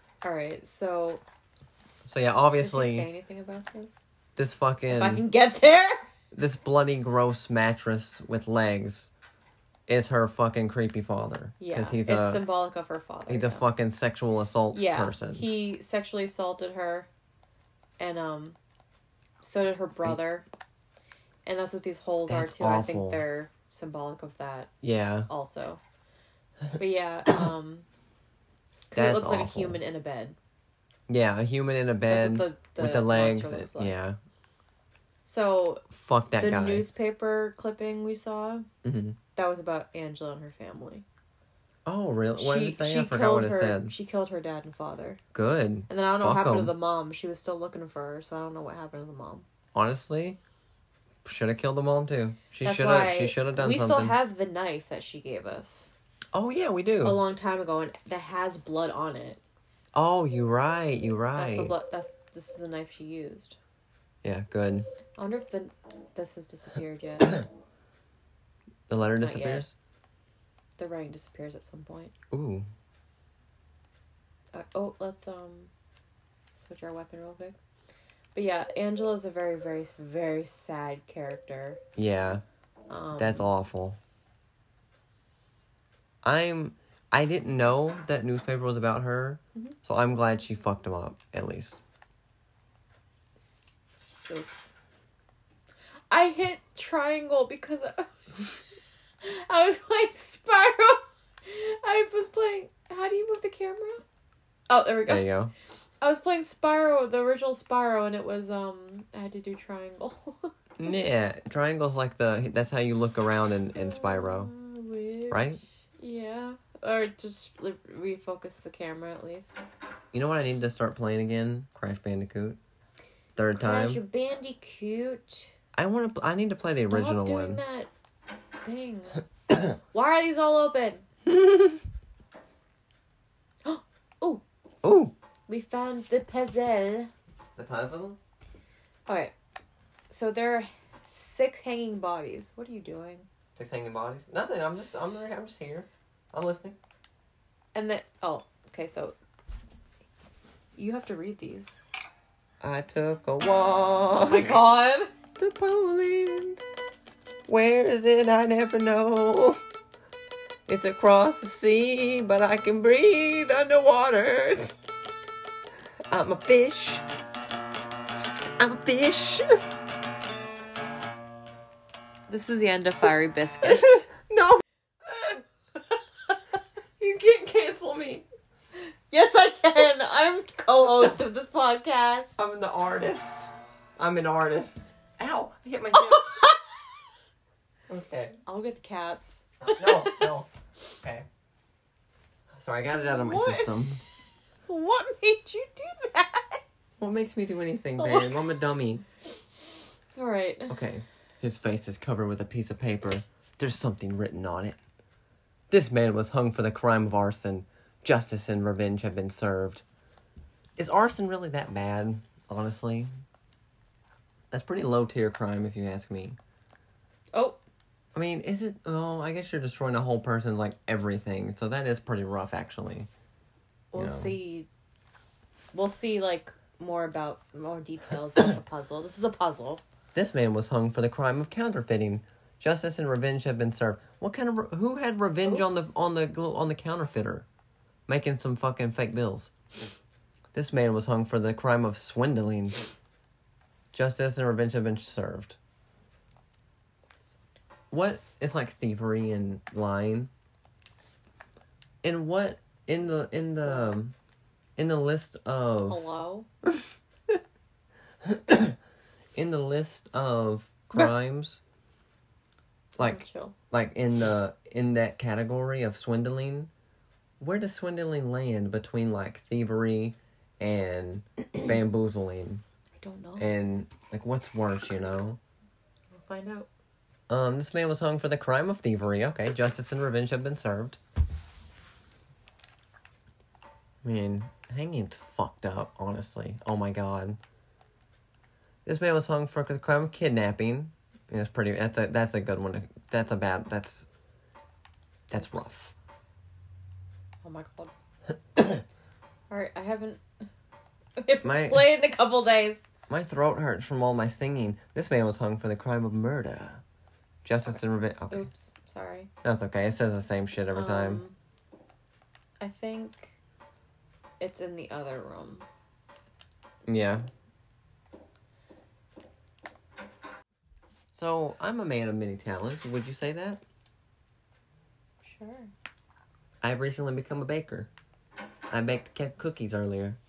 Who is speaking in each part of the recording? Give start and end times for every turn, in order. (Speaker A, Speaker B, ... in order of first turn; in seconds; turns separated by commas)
Speaker A: 0.2-1.2, Speaker B: 2.0-3.1, Speaker A: 2.6-4.0, Speaker B: 4.3-5.2, Speaker A: 4.9-6.1, Speaker B: 6.3-9.1, Speaker B: 9.9-12.4, Speaker A: 11.6-13.6, Speaker B: 13.3-15.5, Speaker A: 14.7-17.1, Speaker A: 18.0-18.6, Speaker A: 19.4-20.4, Speaker A: 21.4-24.7, Speaker B: 22.3-23.2, Speaker B: 24.8-25.3, Speaker A: 25.3-25.8, Speaker A: 26.8-27.9, Speaker A: 28.9-30.4, Speaker B: 28.9-29.8, Speaker B: 31.1-34.2, Speaker A: 32.1-34.0, Speaker A: 35.2-35.8, Speaker B: 35.9-36.9, Speaker A: 36.4-38.7, Speaker B: 38.8-39.2, Speaker A: 39.3-41.0, Speaker B: 41.8-43.9, Speaker A: 42.4-45.2, Speaker B: 45.3-46.7, Speaker A: 45.9-49.5, Speaker B: 49.7-50.4, Speaker B: 51.2-54.2, Speaker A: 52.6-55.9, Speaker B: 56.3-57.2, Speaker A: 57.0-59.4, Speaker B: 59.9-61.7, Speaker A: 61.3-63.6, Speaker B: 64.2-64.9, Speaker A: 65.2-67.4, Speaker B: 68.9-69.8, Speaker A: 69.2-69.7, Speaker A: 70.8-72.1, Speaker B: 72.3-72.7, Speaker A: 74.5-75.7, Speaker A: 76.6-77.5, Speaker A: 78.3-81.8, Speaker B: 82.0-82.4, Speaker A: 82.9-83.5, Speaker B: 83.2-84.0, Speaker B: 86.2-91.8, Speaker A: 94.2-94.7, Speaker A: 96.1-98.6, Speaker A: 99.2-104.0, Speaker A: 104.7-105.2, Speaker B: 105.1-105.5, Speaker A: 106.0-110.5, Speaker B: 110.8-114.5, Speaker A: 113.7-119.6, Speaker B: 115.3-115.6, Speaker B: 120.1-122.6, Speaker B: 123.3-124.0, Speaker A: 123.6-125.5, Speaker B: 125.7-127.6, Speaker A: 126.7-127.9, Speaker A: 128.6-131.1, Speaker B: 131.3-131.8, Speaker A: 133.6-134.4, Speaker B: 134.8-135.1, Speaker A: 135.5-137.1, Speaker B: 137.6-138.2, Speaker A: 139.1-139.3, Speaker A: 140.1-143.3, Speaker B: 143.6-146.8, Speaker A: 147.7-149.2, Speaker A: 150.8-151.8, Speaker B: 152.6-154.6, Speaker A: 154.2-155.1, Speaker B: 155.4-156.6, Speaker B: 157.5-159.6, Speaker B: 160.7-164.7, Speaker B: 166.1-167.0, Speaker B: 168.6-169.6, Speaker A: 172.3-174.1, Speaker B: 173.6-175.4, Speaker B: 177.0-178.2, Speaker A: 179.1-182.4, Speaker B: 182.4-186.5, Speaker A: 186.1-186.6, Speaker B: 187.9-188.4, Speaker A: 188.4-190.3, Speaker B: 189.7-190.5, Speaker B: 191.0-191.3, Speaker B: 192.5-194.0, Speaker A: 192.9-193.8, Speaker A: 194.6-196.6, Speaker B: 197.0-199.0, Speaker A: 198.0-198.6, Speaker A: 200.1-200.8, Speaker B: 200.7-204.8, Speaker B: 205.7-209.8, Speaker B: 210.8-213.1, Speaker B: 214.5-216.4, Speaker A: 217.3-217.6, Speaker B: 218.1-223.1, Speaker A: 223.9-224.7, Speaker B: 223.9-224.3, Speaker A: 225.7-229.8, Speaker B: 230.1-237.4, Speaker A: 235.5-235.9, Speaker B: 238.1-239.5, Speaker B: 240.5-242.9, Speaker B: 243.9-245.6, Speaker A: 247.1-247.5, Speaker B: 247.9-250.3, Speaker B: 252.0-254.1, Speaker A: 253.7-253.9, Speaker B: 254.8-256.1, Speaker A: 255.9-256.5, Speaker B: 256.6-257.4, Speaker B: 258.2-258.8, Speaker B: 259.3-261.6, Speaker B: 263.0-266.7, Speaker A: 263.0-263.5, Speaker B: 267.4-272.6, Speaker A: 273.0-273.5, Speaker B: 273.4-275.4, Speaker A: 276.1-276.7, Speaker B: 277.3-281.0, Speaker B: 284.0-287.4, Speaker B: 288.8-294.1, Speaker B: 295.3-295.9, Speaker A: 297.4-297.9, Speaker B: 298.6-298.8, Speaker A: 299.5-300.2, Speaker A: 301.2-302.8, Speaker B: 301.4-301.9, Speaker B: 303.1-306.8, Speaker B: 307.4-308.5, Speaker A: 308.3-309.3, Speaker B: 309.4-311.2, Speaker A: 310.7-311.3, Speaker A: 312.6-313.3, Speaker A: 314.4-315.7, Speaker B: 316.9-317.3, Speaker B: 321.1-323.6, Speaker A: 325.2-325.7, Speaker B: 326.6-327.9, Speaker B: 328.7-330.2